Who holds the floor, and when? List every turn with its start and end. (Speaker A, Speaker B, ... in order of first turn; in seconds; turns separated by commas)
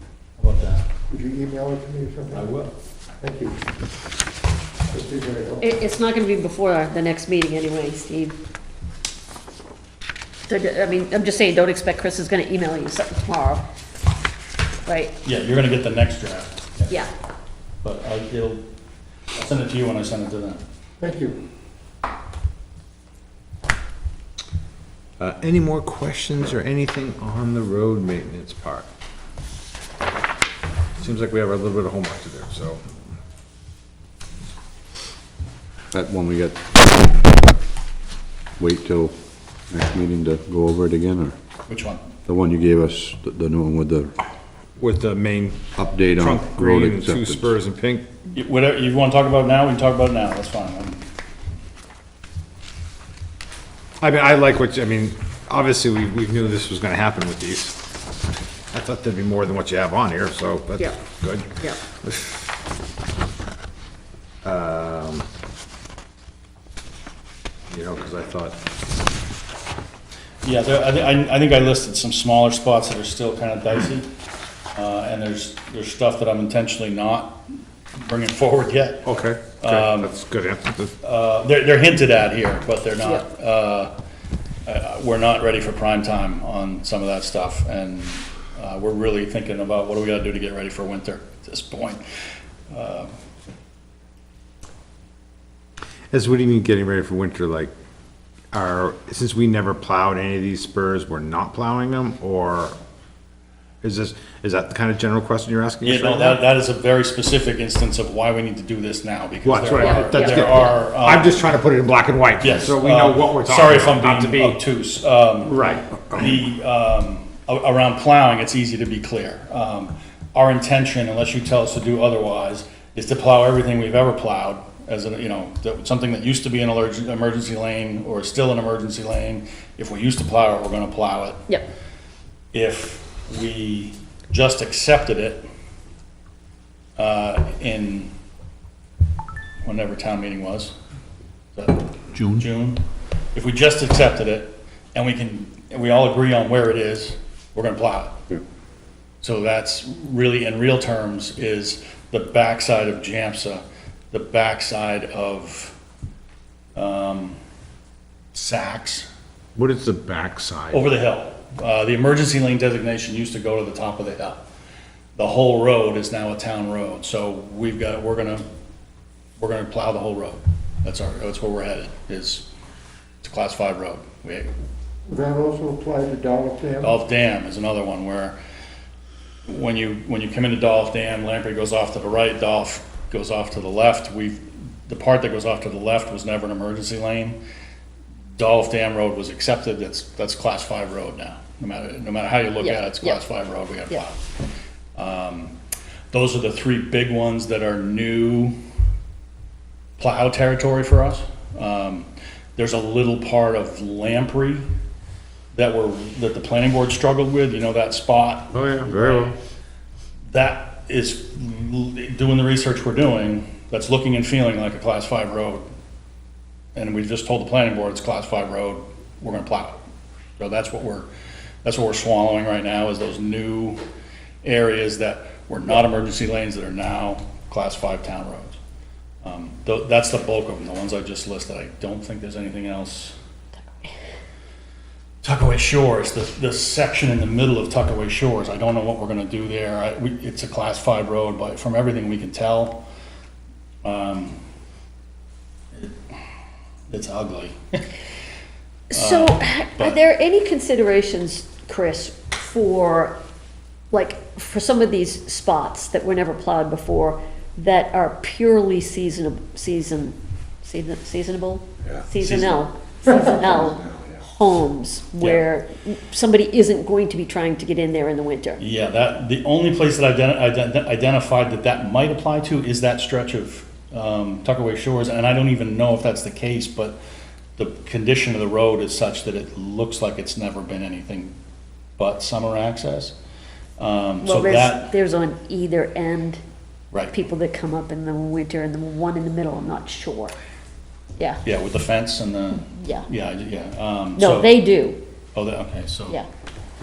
Speaker A: 0.4-0.8, Speaker B: 1.1-2.5, Speaker B: 3.2-3.6, Speaker B: 4.9-5.7, Speaker C: 5.6-8.3, Speaker C: 10.5-13.7, Speaker C: 14.9-15.2, Speaker A: 15.2-16.9, Speaker A: 17.8-18.6, Speaker A: 19.4-20.6, Speaker B: 21.0-21.4, Speaker D: 25.2-28.9, Speaker D: 31.0-32.8, Speaker E: 35.9-37.1, Speaker E: 38.6-39.1, Speaker E: 39.7-41.3, Speaker A: 41.7-42.1, Speaker E: 42.3-44.1, Speaker D: 44.8-48.1, Speaker E: 45.8-47.4, Speaker A: 48.3-51.0, Speaker D: 54.0-57.8, Speaker D: 58.7-62.4, Speaker C: 61.6-61.8, Speaker D: 64.4-65.3, Speaker D: 67.7-68.6, Speaker A: 70.4-74.1, Speaker A: 74.7-77.4, Speaker A: 78.0-80.2, Speaker D: 79.0-80.9, Speaker A: 81.0-83.9, Speaker A: 84.7-92.0, Speaker A: 92.7-93.1, Speaker D: 96.1-97.7, Speaker D: 98.5-102.8, Speaker D: 103.8-106.4, Speaker A: 105.8-111.4, Speaker D: 109.4-114.6, Speaker C: 109.8-110.7, Speaker A: 112.4-131.4, Speaker D: 115.4-116.3, Speaker A: 132.5-135.4, Speaker A: 137.0-138.1, Speaker A: 139.6-140.7, Speaker A: 141.6-142.8, Speaker A: 143.3-148.2, Speaker A: 149.2-155.8, Speaker A: 156.8-157.4, Speaker A: 158.3-159.1, Speaker D: 159.6-160.9, Speaker A: 160.7-164.5, Speaker A: 165.2-168.4, Speaker A: 169.4-172.5, Speaker A: 173.2-174.5, Speaker B: 175.1-177.0, Speaker A: 176.8-178.4, Speaker A: 179.5-187.4, Speaker A: 188.4-194.2, Speaker C: 192.6-193.2, Speaker A: 195.0-195.6, Speaker A: 196.1-198.6, Speaker A: 200.0-204.7, Speaker A: 205.5-209.3, Speaker D: 208.5-209.3, Speaker A: 210.3-215.6, Speaker A: 216.8-219.8, Speaker A: 220.4-221.1, Speaker A: 221.6-223.8, Speaker A: 224.4-228.6, Speaker A: 229.2-233.2, Speaker C: 233.6-233.9, Speaker A: 235.2-242.8, Speaker A: 243.8-244.4, Speaker A: 246.9-247.8, Speaker C: 248.9-253.2, Speaker A: 248.9-250.0, Speaker C: 253.9-268.6, Speaker A: 262.2-262.6, Speaker A: 265.2-265.4, Speaker A: 268.6-277.0, Speaker A: 277.6-281.4, Speaker A: 282.0-283.1, Speaker A: 283.8-284.9, Speaker C: 284.2-286.4, Speaker C: 287.1-290.3, Speaker A: 291.4-294.6, Speaker C: 292.7-293.1, Speaker C: 294.1-295.0, Speaker A: 295.4-296.2